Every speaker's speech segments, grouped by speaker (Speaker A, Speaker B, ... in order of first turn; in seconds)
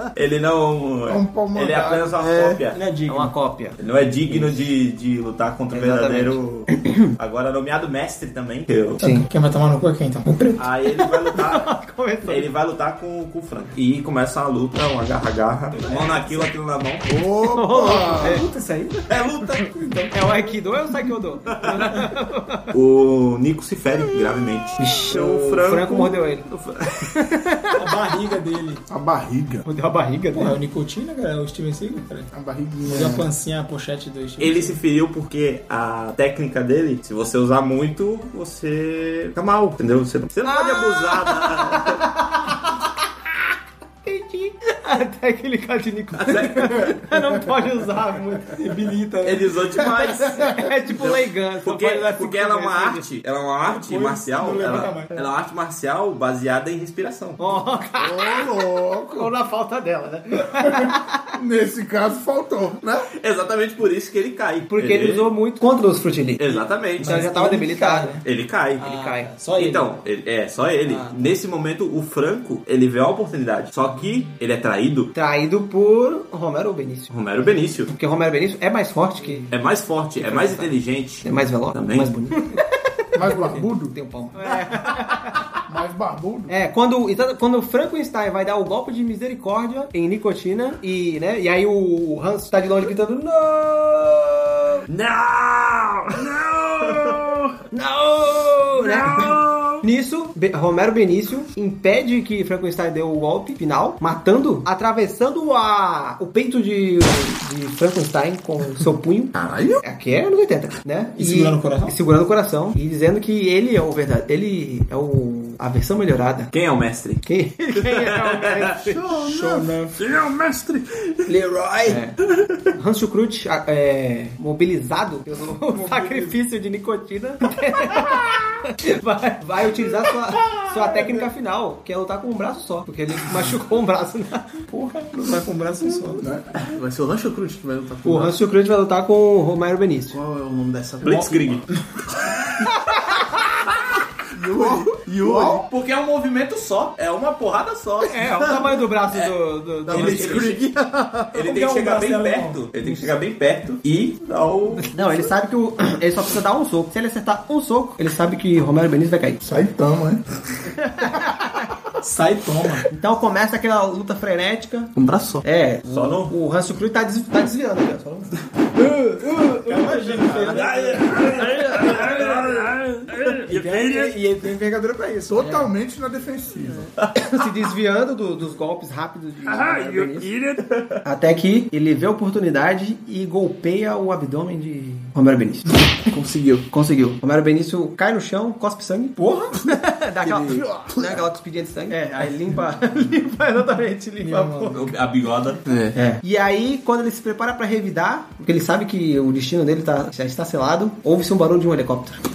Speaker A: 0.1-2.8, 3.8-9.0, 10.6-17.1, 19.1-19.7, 21.5-22.1, 22.7-27.1, 34.4-42.1, 46.1-47.0, 49.2-50.5, 51.6-57.7, 63.0-65.3, 66.4-67.2, 68.2-68.9, 69.5-75.1, 77.1-77.9, 79.5-82.1, 94.9-97.5, 98.8-99.8, 116.5-117.2, 117.8-118.6, 141.0-142.7, 145.4-148.2, 149.9-150.7, 151.3-154.9, 165.8-166.3, 170.4-174.2, 177.0-177.4, 179.5-181.0, 194.7-195.6
Speaker B: 1.1-2.1, 17.0-18.5, 28.9-29.7, 32.3-33.3, 58.0-59.3, 61.3-63.1, 83.2-84.0, 85.7-86.5, 136.2-136.5, 144.5-145.6, 159.4-160.2, 175.3-176.9
Speaker C: 2.2-2.6, 109.4-109.8, 118.7-120.8, 136.7-138.4, 140.1-141.7, 144.3-145.6, 149.9-151.3, 165.0-165.4, 168.8-170.4, 171.3-173.1, 186.1-186.7, 190.2-191.3, 195.7-196.0
Speaker D: 2.7-3.3, 9.0-10.7, 15.8-16.3, 18.2-19.1, 19.6-20.6, 27.8-28.8, 30.3-32.3, 32.9-34.8, 48.5-49.6, 53.6-55.2, 67.0-68.3, 68.8-70.0, 70.8-71.3, 83.2-83.6, 111.2-112.0, 119.2-120.0, 121.3-122.0, 125.7-126.4, 130.3-131.3, 134.7-136.3, 151.4-152.6, 162.0-162.9, 169.7-171.3, 173.4-175.7, 189.2-189.5, 194.2-194.9, 195.9-196.2
Speaker E: 3.1-4.6, 5.7-7.1, 9.0-9.3, 11.0-12.5, 17.5-18.5, 20.1-22.7, 24.8-26.5, 27.1-27.8, 29.7-30.6, 40.4-42.9, 44.0-48.6, 50.3-53.1, 57.4-58.5, 59.1-61.0, 64.7-68.2, 68.8-69.3, 75.1-77.1, 77.9-79.5, 80.2-82.6, 83.9-85.4, 86.5-94.8, 97.7-116.5, 117.2-119.0, 121.9-122.2, 122.8-134.5, 138.0-140.2, 142.6-143.3, 148.1-150.5, 154.8-159.4, 160.8-161.5, 162.9-168.4, 170.1-171.1, 177.1-180.3, 181.0-185.8, 186.7-194.9, 196.2-202.2